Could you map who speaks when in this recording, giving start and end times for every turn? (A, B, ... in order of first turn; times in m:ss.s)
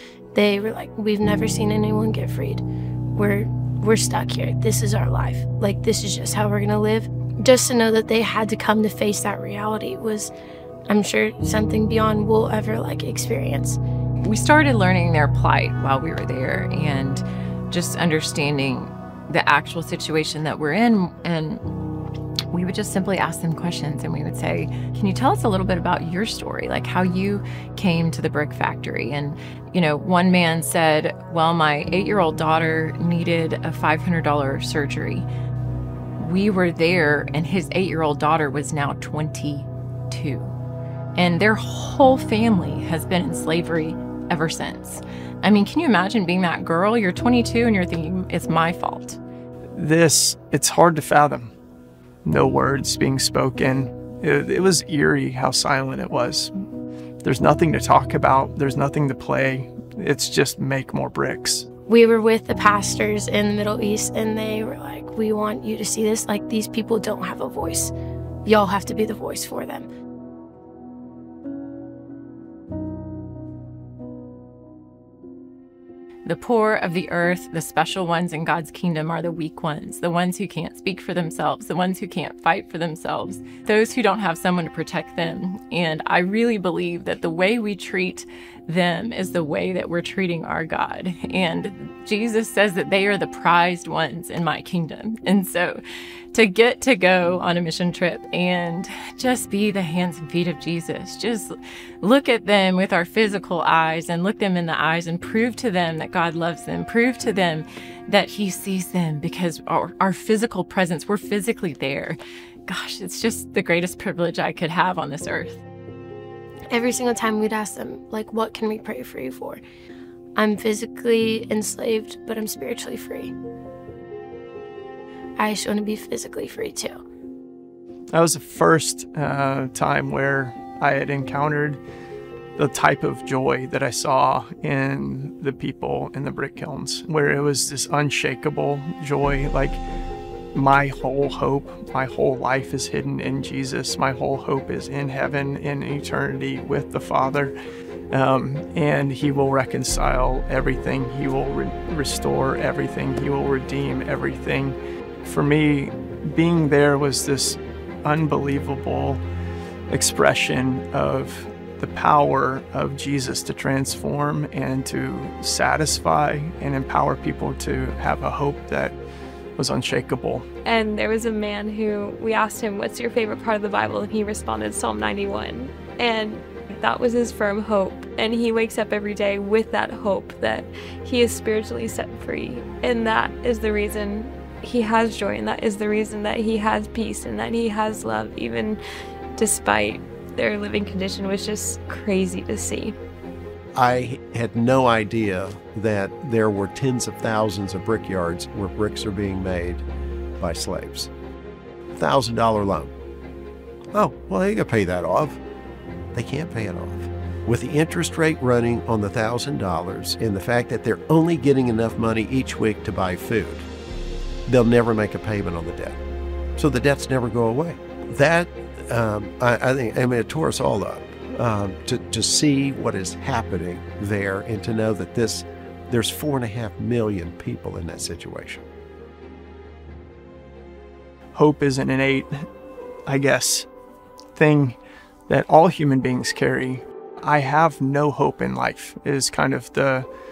0:00.4-0:02.6 A
0:03.2-0:10.3 A
0:10.9-0:13.8 A
0:14.2-0:21.6 B
0:22.5-0:35.3 B
0:36.2-0:40.5 B
0:41.2-0:49.2 B
0:49.7-0:51.5 C
0:52.2-0:56.5 C
0:57.2-1:01.7 C
1:01.9-1:07.9 A
1:08.4-1:09.9 A
1:16.2-1:35.8 B
1:36.3-1:55.6 B
1:56.7-1:59.6 A
2:00.4-2:03.3 A
2:05.4-2:07.0 A
2:08.1-2:11.8 C
2:12.6-2:19.8 C
2:20.5-2:27.6 C
2:28.1-2:39.2 C
2:39.9-2:49.0 C
2:49.6-2:50.5 C
2:50.6-3:08.8 D
3:09.4-3:13.0 D
3:13.8-3:19.8 E
3:20.4-3:21.1 E
3:22.0-3:22.9 E
3:23.9-3:25.4 E
3:26.1-3:33.7 E
3:34.5-3:36.0 E
3:36.6-3:48.6 E
3:51.3-3:52.5 C
3:53.1-3:53.7 C
3:54.4-3:54.8 C
3:55.3-4:00.1 C